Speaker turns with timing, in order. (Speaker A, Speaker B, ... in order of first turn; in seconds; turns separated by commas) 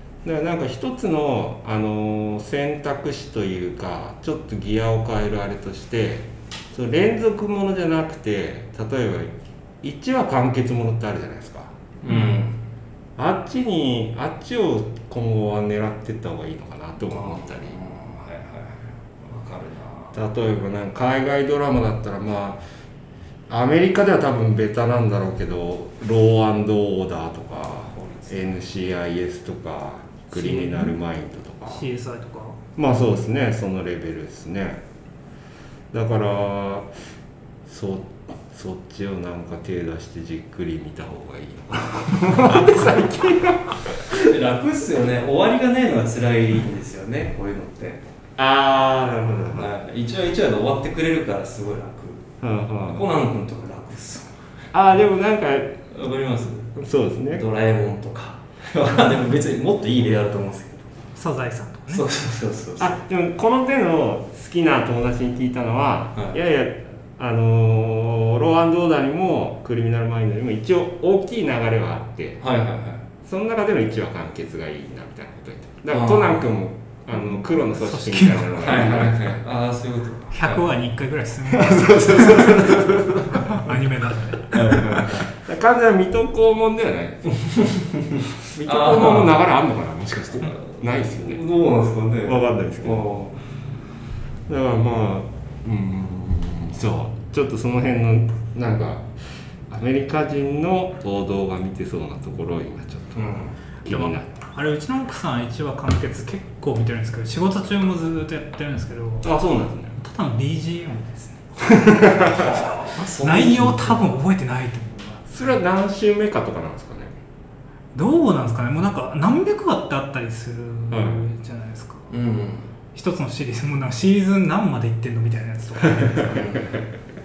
Speaker A: 0.2-11.7, Speaker B: 12.0-12.6, Speaker A: 13.2-17.8, Speaker B: 17.0-20.1, Speaker A: 20.1-22.6, Speaker A: 23.5-31.9, Speaker B: 27.9-28.5, Speaker C: 30.3-30.9, Speaker C: 31.7-32.6, Speaker A: 32.8-34.8, Speaker A: 35.9-36.9, Speaker A: 37.6-44.2, Speaker B: 44.1-48.0, Speaker A: 48.4-49.7, Speaker B: 49.5-52.2, Speaker A: 52.4-53.0, Speaker B: 52.9-54.4, Speaker A: 54.7-55.8, Speaker B: 55.9-56.8, Speaker A: 56.8-57.4, Speaker B: 57.3-60.9, Speaker C: 61.1-62.0, Speaker B: 61.9-63.0, Speaker A: 62.8-72.4, Speaker B: 72.4-73.0, Speaker A: 73.2-79.3, Speaker B: 75.9-76.5, Speaker C: 77.2-78.6, Speaker B: 78.6-80.7, Speaker C: 80.3-84.9, Speaker A: 81.5-83.8, Speaker B: 84.5-85.3, Speaker A: 84.7-87.3, Speaker B: 87.4-87.9, Speaker A: 88.5-91.4, Speaker B: 88.6-89.4, Speaker B: 90.4-93.4, Speaker A: 92.2-93.1, Speaker A: 94.5-99.1, Speaker A: 99.7-104.4, Speaker B: 103.2-103.5, Speaker C: 103.8-109.3, Speaker A: 109.2-109.9, Speaker C: 110.0-115.3, Speaker A: 111.7-112.3, Speaker B: 112.2-114.1, Speaker A: 115.3-117.1, Speaker C: 117.9-122.1, Speaker A: 120.9-121.2, Speaker B: 122.1-122.7, Speaker C: 122.9-126.4, Speaker B: 126.3-126.7